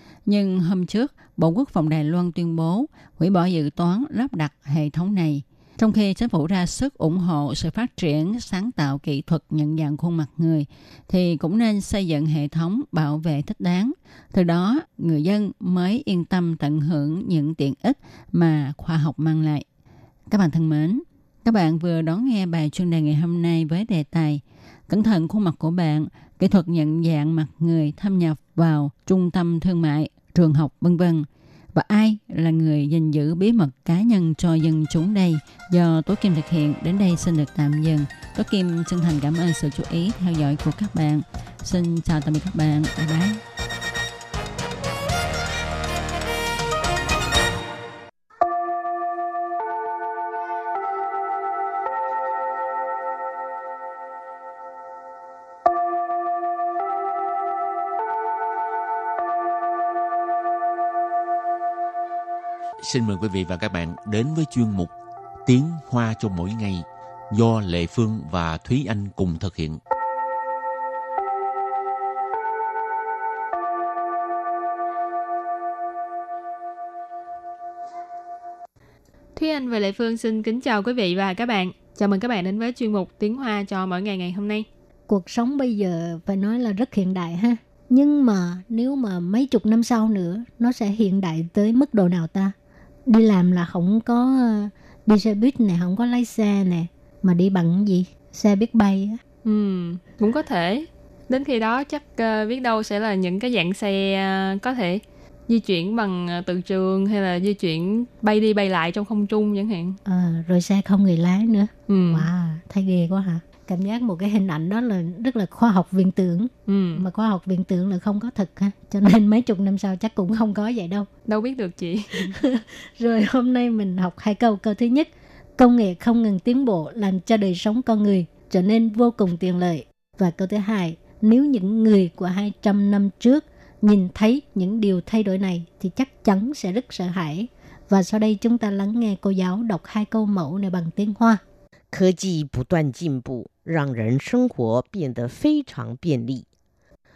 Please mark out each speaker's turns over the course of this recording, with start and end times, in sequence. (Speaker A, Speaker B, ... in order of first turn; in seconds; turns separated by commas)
Speaker A: 0.3-19.6, Speaker A: 20.3-43.4, Speaker B: 62.8-64.9, Speaker B: 65.4-69.8, Speaker C: 79.3-84.7, Speaker D: 85.1-92.5, Speaker D: 93.1-99.2, Speaker C: 99.4-110.0, Speaker D: 110.1-121.1, Speaker C: 111.9-112.3, Speaker C: 116.7-117.0, Speaker C: 121.3-122.3, Speaker D: 122.2-141.4, Speaker E: 141.9-146.4